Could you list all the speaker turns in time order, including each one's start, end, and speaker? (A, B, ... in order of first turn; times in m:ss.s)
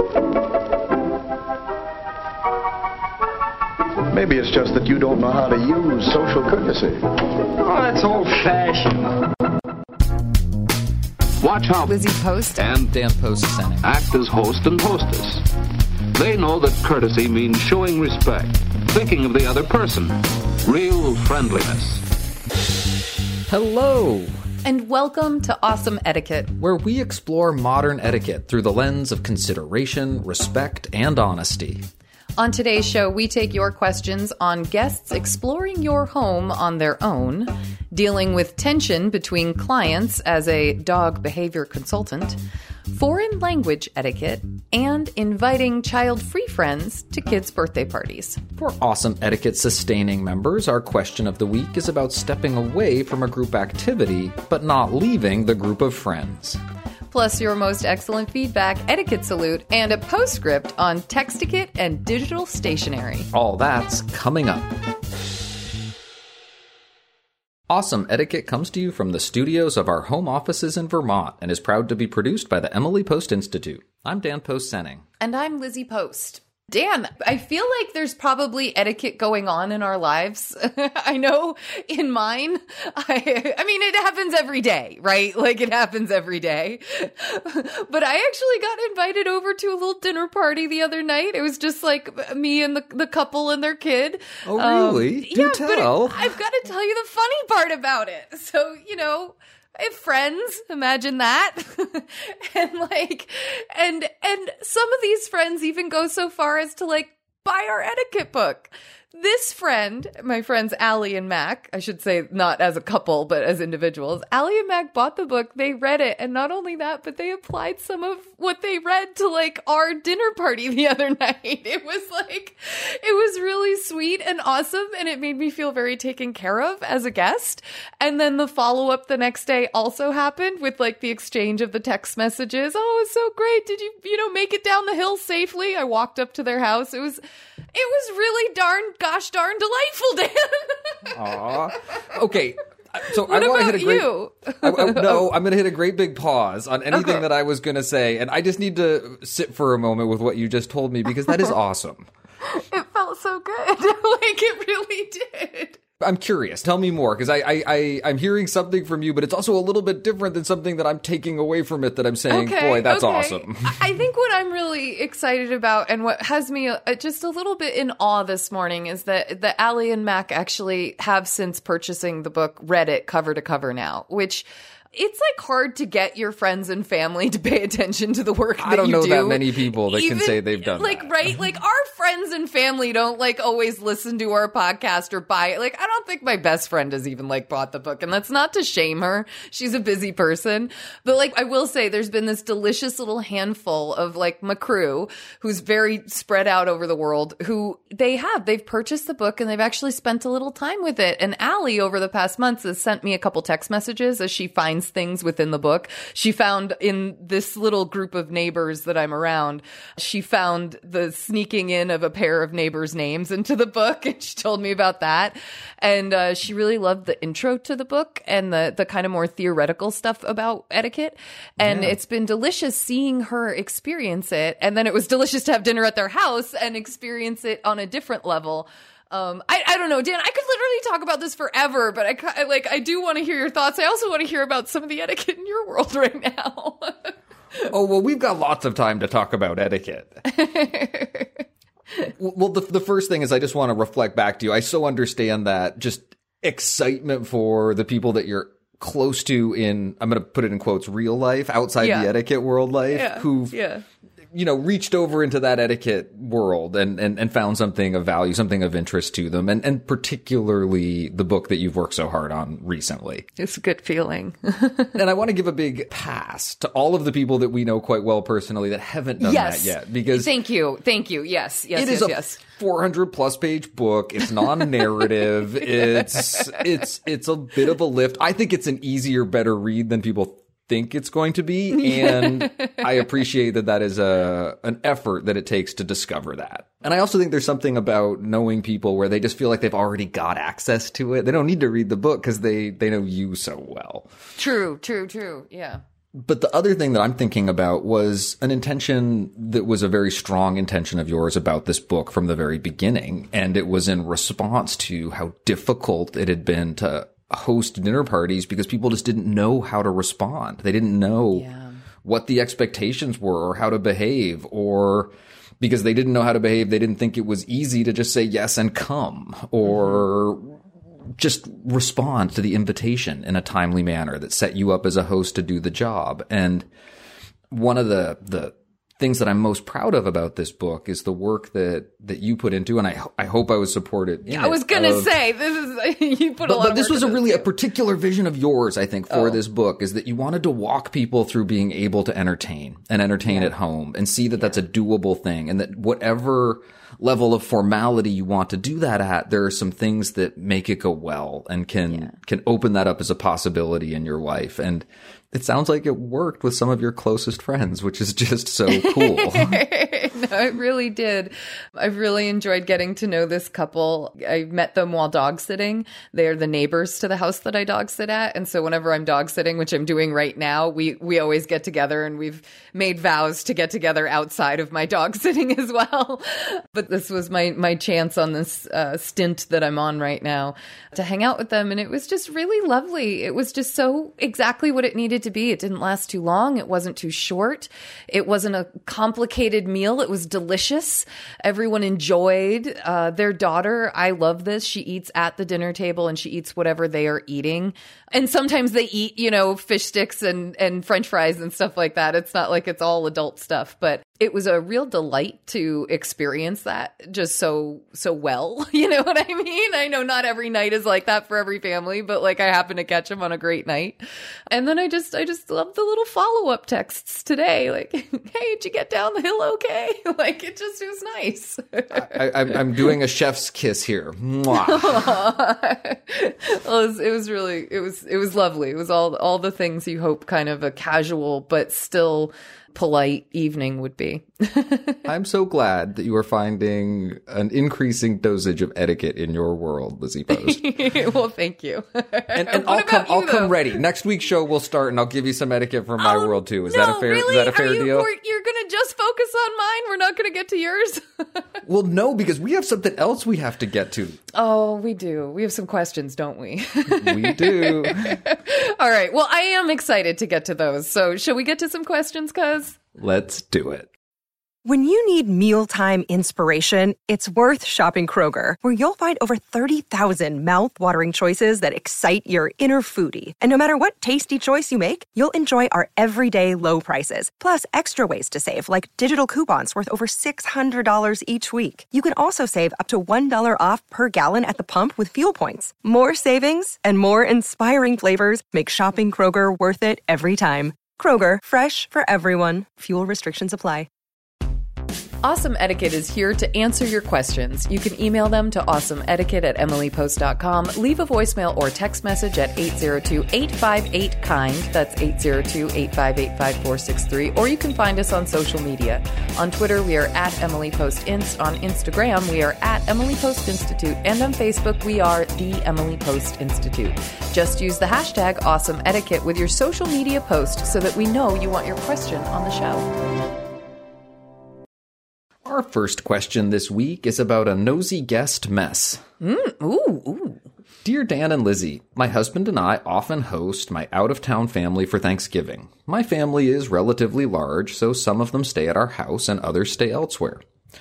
0:04.1-0:07.0 A
0:08.0-0:08.4 A
0:11.4-0:12.0 B
0:11.9-0:12.6 C
0:12.6-0:12.9 B
0:12.6-0:13.9 D
0:13.8-0:15.5 B
0:16.2-0:22.0 B
0:23.5-0:24.4 D
0:24.6-0:26.6 C
0:26.6-0:31.9 D
0:32.4-0:48.4 C
0:48.6-0:56.6 D
0:57.1-1:03.3 C
1:03.3-1:04.8 D
1:07.7-1:15.0 D
1:15.2-2:17.2 C
1:34.4-1:36.3 D
2:17.8-2:21.5 C
2:21.1-2:32.1 D
2:23.1-2:25.3 C
2:26.9-2:27.2 C
2:32.5-2:35.8 C
2:36.0-2:43.8 D
2:42.3-3:57.2 C
2:58.6-3:01.2 D
3:41.6-3:42.0 D
3:57.6-4:00.2 D
4:00.3-4:01.3 C
4:02.2-4:13.6 D
4:11.8-4:12.1 C
4:12.9-4:13.8 C
4:14.3-4:23.3 D
4:23.4-4:25.0 C
4:24.9-4:30.4 D
4:29.2-4:32.4 C
4:31.8-4:54.1 D
4:35.8-4:36.6 C
4:41.8-4:42.8 C
4:54.4-4:55.8 C
4:56.2-5:11.5 D
5:11.3-5:11.8 C
5:12.0-5:26.7 D
5:19.7-5:20.0 C
5:27.5-5:35.2 D
5:34.3-5:37.5 C
5:36.4-5:59.6 D
5:39.1-5:39.4 C
5:43.3-5:43.5 C
5:51.9-5:52.1 C
5:58.7-6:54.0 C
6:54.5-7:02.9 C
7:01.9-7:05.2 D
7:04.5-7:15.0 C
7:15.0-7:20.6 D
7:20.3-7:23.8 C
7:22.3-7:28.1 D
7:26.0-7:31.4 C
7:31.6-7:34.2 D
7:34.3-7:42.8 C
7:36.9-7:38.2 D
7:43.0-7:43.9 D
7:44.6-8:13.9 E
8:15.2-8:42.9 C
8:45.4-8:49.0 D
8:49.2-8:50.4 C
8:50.8-9:00.4 D